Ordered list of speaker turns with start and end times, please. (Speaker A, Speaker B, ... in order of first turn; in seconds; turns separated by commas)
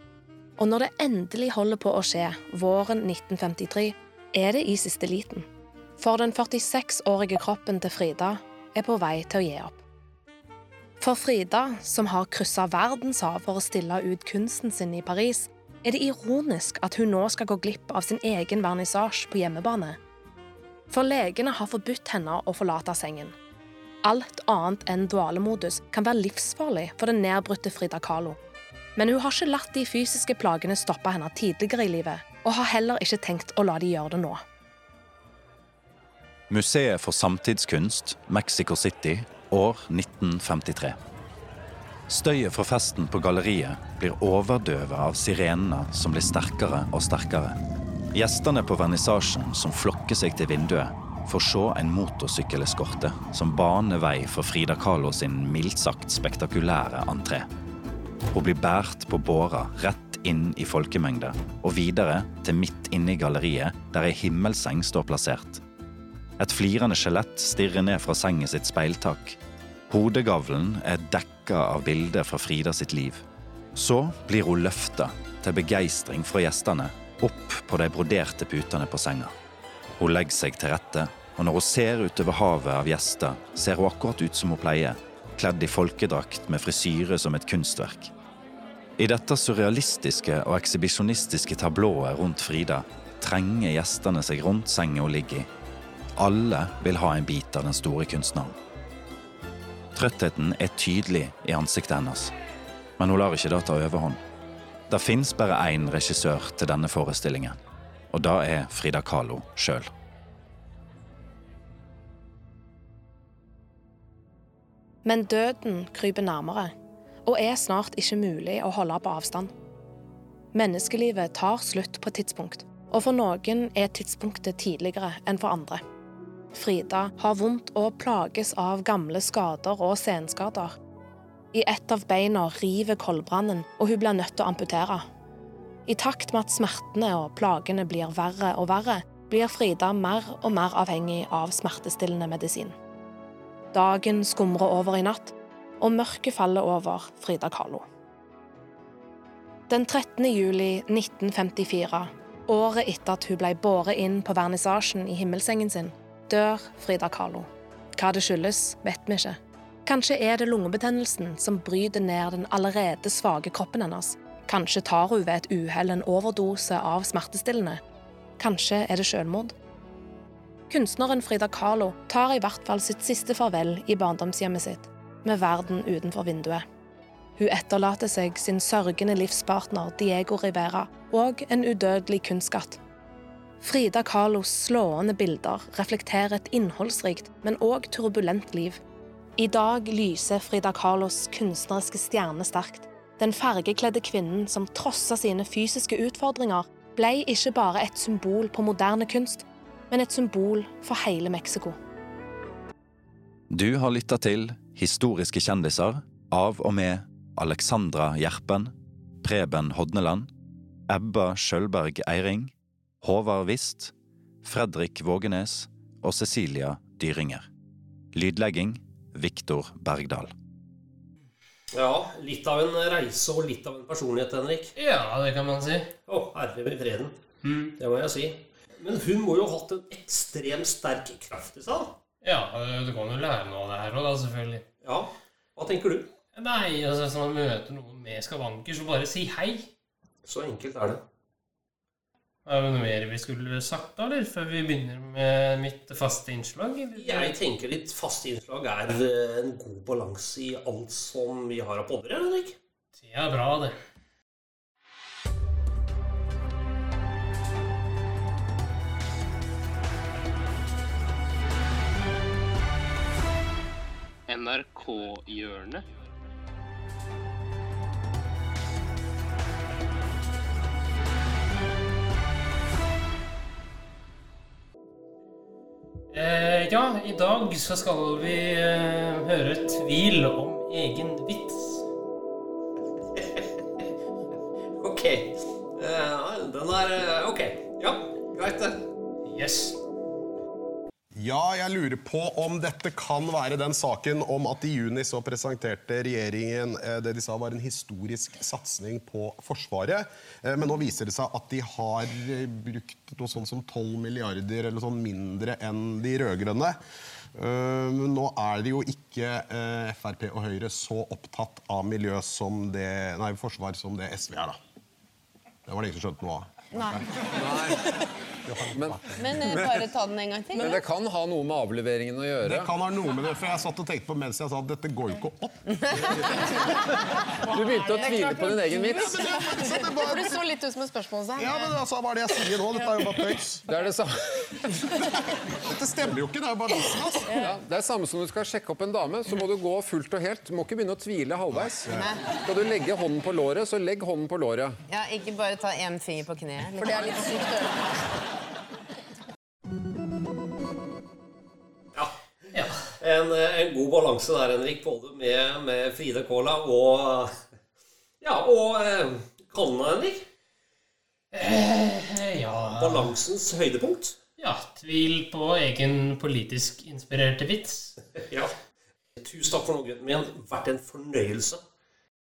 Speaker A: 0.6-5.5, Speaker A: 6.0-9.8, Speaker A: 11.0-20.0, Speaker A: 20.9-23.3, Speaker A: 24.0-28.4, Speaker A: 28.9-34.4, Speaker B: 36.5-41.0, Speaker B: 42.1-47.6, Speaker B: 48.1-57.5, Speaker B: 58.3-65.6, Speaker B: 66.4-73.2, Speaker B: 73.7-79.3, Speaker B: 80.0-88.1, Speaker B: 89.0-95.5, Speaker B: 96.2-98.5, Speaker B: 99.9-102.3, Speaker B: 103.0-104.2, Speaker B: 104.9-107.6, Speaker B: 108.1-109.9, Speaker A: 115.0-116.7, Speaker A: 117.2-119.5, Speaker A: 120.5-125.8, Speaker A: 126.5-130.7, Speaker A: 131.5-135.1, Speaker A: 135.9-142.7, Speaker A: 143.7-147.8, Speaker A: 149.7-167.8, Speaker A: 168.4-169.6, Speaker A: 170.7-176.6, Speaker A: 177.4-182.8, Speaker A: 183.6-188.8, Speaker A: 189.4-201.8, Speaker B: 203.5-210.3, Speaker B: 210.9-217.5, Speaker B: 218.1-220.3, Speaker C: 221.7-224.7, Speaker D: 224.8-225.9, Speaker C: 226.1-227.1, Speaker D: 227.4-227.7, Speaker C: 227.8-232.0, Speaker D: 232.2-234.7, Speaker C: 234.8-236.1, Speaker D: 236.3-239.7, Speaker C: 240.2-241.0, Speaker D: 242.4-247.3, Speaker C: 246.9-252.6, Speaker D: 253.0-253.8, Speaker D: 264.3-265.8, Speaker D: 276.1-281.8, Speaker C: 284.8-288.9, Speaker D: 289.3-289.8, Speaker E: 291.1-306.8, Speaker E: 307.4-314.6, Speaker E: 315.7-317.2, Speaker F: 316.7-318.1, Speaker G: 317.4-317.8, Speaker E: 318.4-319.4, Speaker G: 318.7-319.7, Speaker F: 319.1-320.8, Speaker G: 320.5-322.7, Speaker E: 322.4-326.4, Speaker F: 325.6-333.4, Speaker G: 327.5-329.1, Speaker E: 328.9-330.5, Speaker E: 331.4-333.6, Speaker G: 333.6-334.1, Speaker E: 335.6-337.4, Speaker F: 336.7-337.6, Speaker G: 337.4-341.9, Speaker E: 341.5-342.1, Speaker F: 341.9-342.4, Speaker G: 342.4-344.8, Speaker F: 344.9-348.2, Speaker D: 352.5-352.9, Speaker C: 352.8-357.3, Speaker C: 358.2-360.2, Speaker D: 361.3-363.1, Speaker C: 362.6-364.2, Speaker D: 364.4-367.9, Speaker C: 368.2-368.5, Speaker C: 369.1-371.6